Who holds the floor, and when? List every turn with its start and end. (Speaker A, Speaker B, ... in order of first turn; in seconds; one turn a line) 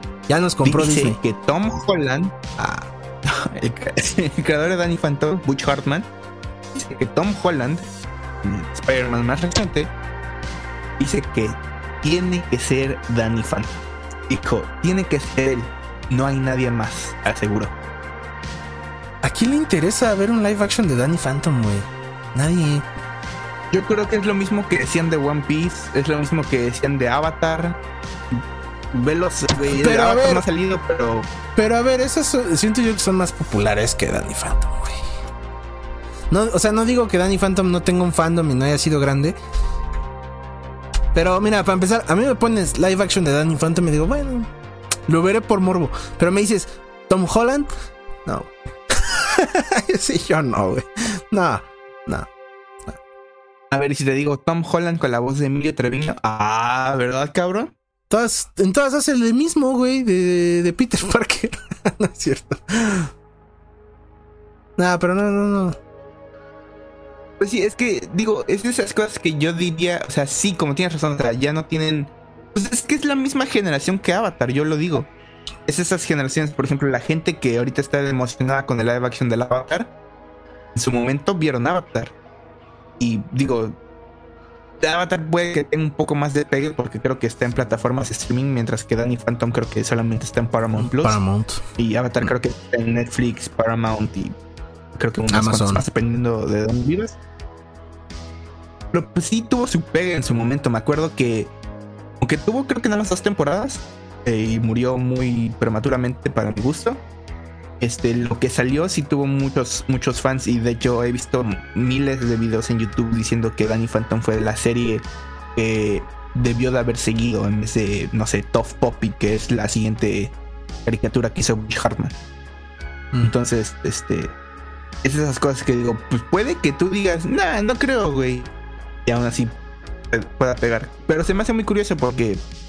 Speaker A: 0.3-1.2
Speaker B: 0.6-2.3
Speaker A: 2.6-2.9
Speaker B: 3.2-6.1
Speaker B: 6.7-7.8
Speaker B: 8.4-9.9
Speaker B: 11.0-17.7
Speaker A: 19.2-22.8
Speaker B: 23.7-27.8
Speaker B: 28.9-31.3
Speaker A: 29.7-30.4
Speaker A: 31.6-35.0
Speaker A: 36.3-39.4
Speaker A: 41.1-44.5
Speaker A: 45.1-47.7
Speaker A: 48.2-52.3
Speaker B: 53.7-57.7
Speaker A: 58.1-63.1
Speaker A: 64.8-65.8
Speaker B: 67.4-75.1
Speaker B: 75.7-79.9
Speaker B: 80.7-82.1
Speaker B: 83.0-83.8
Speaker B: 84.8-91.2
Speaker A: 90.7-91.6
Speaker B: 91.8-94.3
Speaker B: 95.0-97.2
Speaker A: 95.3-95.8
Speaker B: 98.9-101.5
Speaker B: 102.2-107.0
Speaker B: 107.8-122.2
Speaker B: 123.2-124.3
Speaker B: 125.0-128.5
Speaker B: 129.1-129.6
Speaker B: 130.1-132.4